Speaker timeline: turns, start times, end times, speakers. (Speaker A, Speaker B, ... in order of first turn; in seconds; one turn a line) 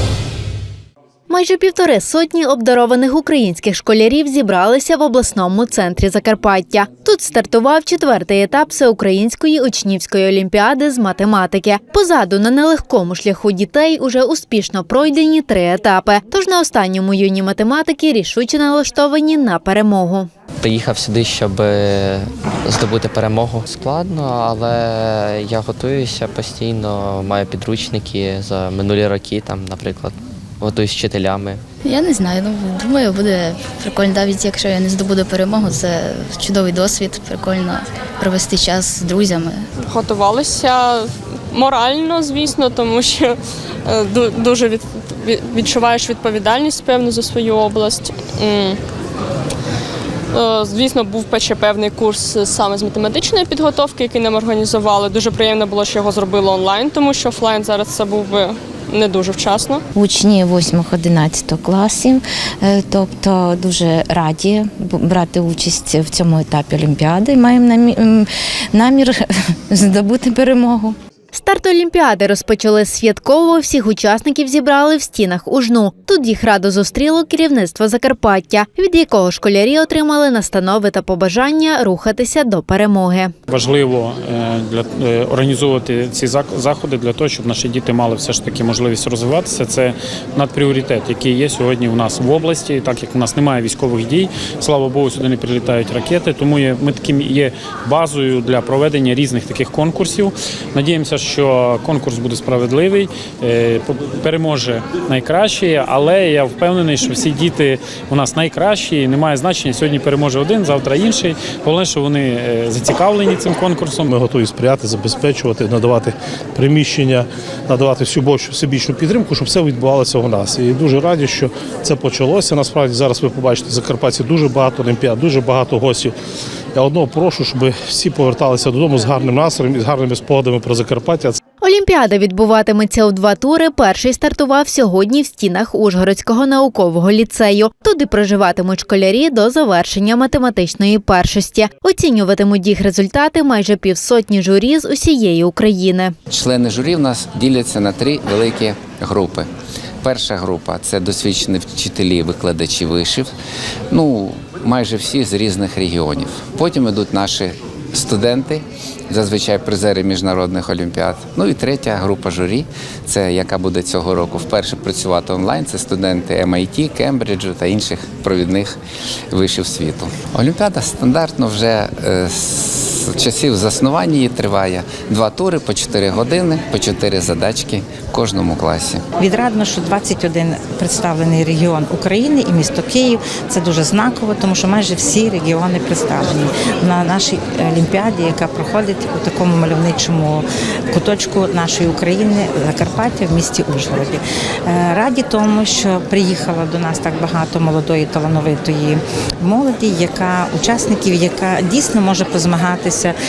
Speaker A: 1.3-20.3
Speaker B: 20.6-31.6
Speaker C: 31.9-35.9
Speaker C: 36.5-39.6
Speaker D: 39.8-48.8
Speaker D: 50.3-59.8
Speaker E: 60.0-70.9
Speaker A: 71.3-83.3
Speaker F: 83.5-114.1
Speaker G: 114.1-126.2
Speaker G: 126.8-131.4
Speaker A: 131.6-146.2
Speaker H: 146.3-149.5
Speaker H: 150.0-153.3
Speaker H: 153.9-168.8
Speaker H: 169.3-179.1
Speaker I: 179.2-203.1